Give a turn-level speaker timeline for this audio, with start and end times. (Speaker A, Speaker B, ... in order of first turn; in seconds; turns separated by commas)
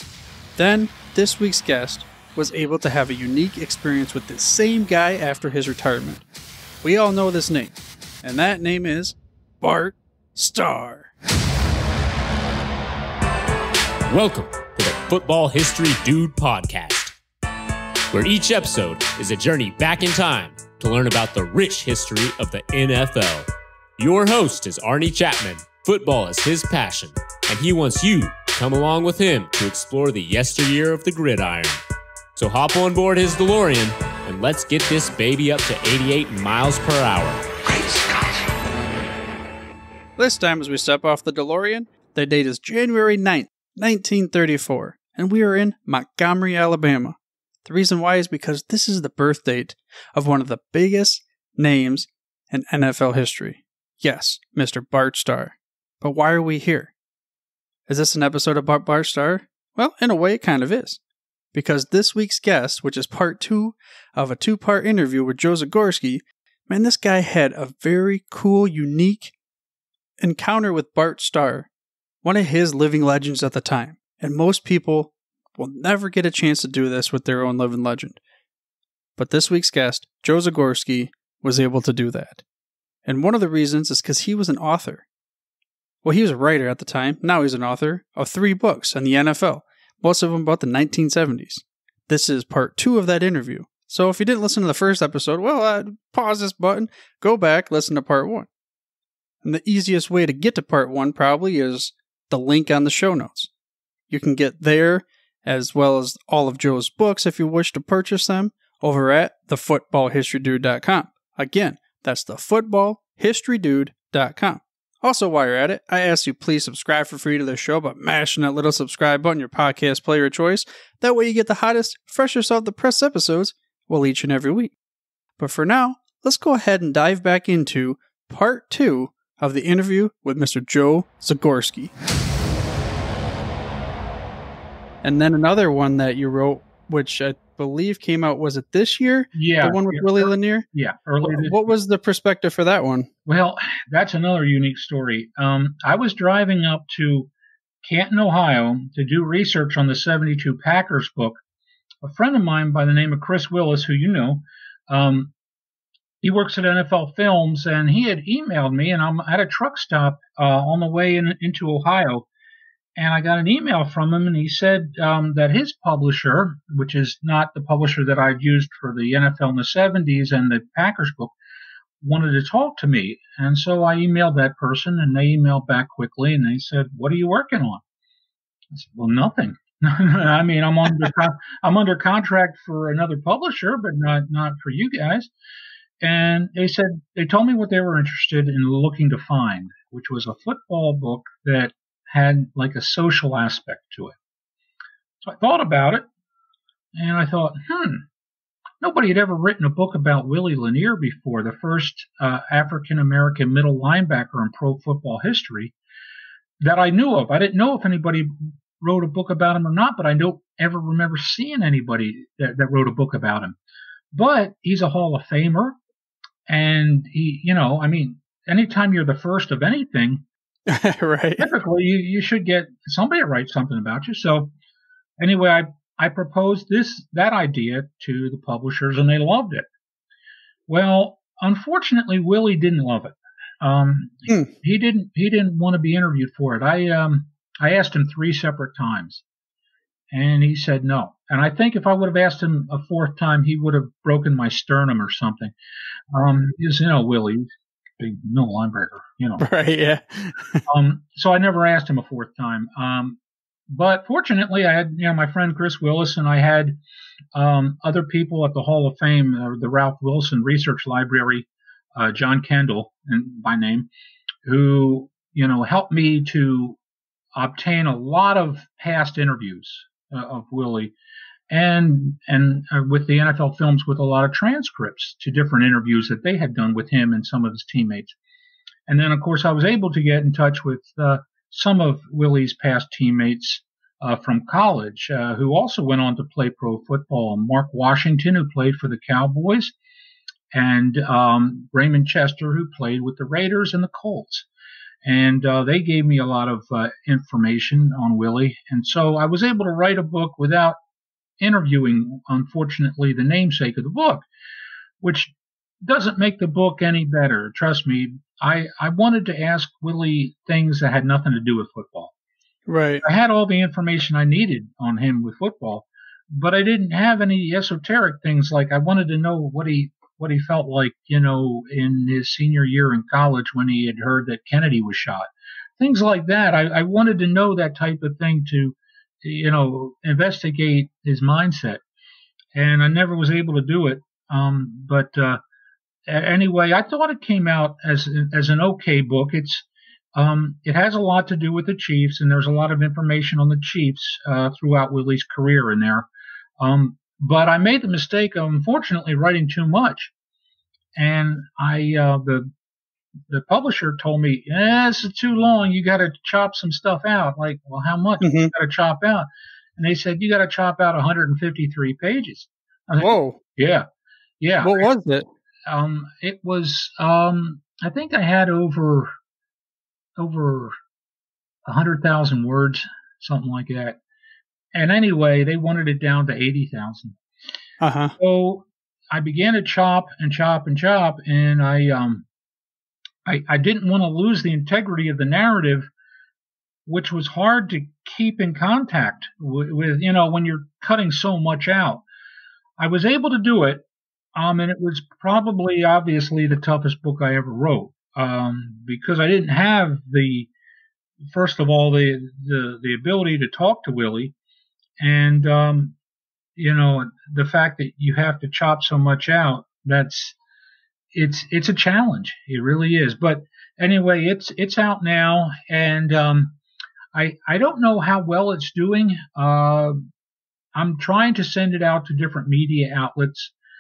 Speaker A: 0.6-6.2, Speaker A: 6.8-11.1, Speaker B: 14.1-17.2, Speaker B: 18.1-23.5, Speaker B: 24.0-31.8, Speaker B: 32.4-37.4, Speaker A: 40.2-56.9, Speaker A: 57.9-61.0, Speaker A: 61.5-69.3, Speaker A: 70.2-71.7, Speaker A: 72.2-78.2, Speaker A: 79.2-82.4, Speaker A: 83.0-85.0, Speaker A: 86.0-98.5, Speaker A: 99.4-103.5, Speaker A: 104.1-124.8, Speaker A: 125.4-131.9, Speaker A: 135.0-140.7, Speaker C: 139.3-141.7, Speaker A: 141.2-143.1, Speaker C: 143.3-147.3, Speaker C: 147.8-151.4, Speaker C: 152.0-155.3, Speaker C: 156.2-162.3, Speaker C: 163.0-171.3, Speaker C: 172.0-177.8, Speaker C: 178.7-185.3, Speaker C: 186.0-194.2, Speaker C: 195.2-196.1, Speaker C: 196.9-198.1, Speaker C: 198.8-205.8, Speaker C: 206.6-213.6, Speaker C: 214.1-215.8, Speaker C: 216.5-220.2, Speaker A: 220.7-221.5, Speaker C: 221.4-224.5, Speaker C: 225.2-229.7, Speaker C: 230.7-239.2, Speaker C: 240.1-245.5, Speaker C: 246.1-249.5, Speaker A: 249.4-250.7, Speaker C: 250.7-256.8, Speaker C: 257.3-263.9, Speaker C: 264.4-266.8, Speaker C: 267.4-270.9, Speaker C: 271.5-278.1, Speaker C: 278.9-289.8, Speaker C: 290.5-294.5, Speaker C: 295.0-300.8, Speaker C: 301.4-304.3, Speaker C: 305.0-312.1, Speaker A: 312.7-313.1, Speaker C: 313.0-331.8, Speaker C: 332.5-335.4, Speaker C: 336.1-346.1, Speaker C: 346.6-350.1, Speaker C: 350.9-352.5, Speaker C: 353.3-363.9, Speaker A: 358.2-358.5, Speaker A: 363.0-363.4, Speaker C: 364.4-364.9, Speaker A: 364.6-365.3, Speaker C: 365.7-369.1, Speaker C: 370.2-370.7, Speaker C: 371.7-374.0, Speaker C: 374.7-377.2, Speaker A: 377.8-378.1, Speaker C: 378.2-382.3, Speaker C: 383.2-385.9, Speaker C: 386.9-392.0, Speaker C: 392.8-400.5, Speaker C: 401.3-404.4, Speaker C: 405.0-406.0, Speaker C: 406.6-410.4, Speaker C: 411.1-416.6, Speaker C: 417.1-420.0, Speaker C: 420.8-423.5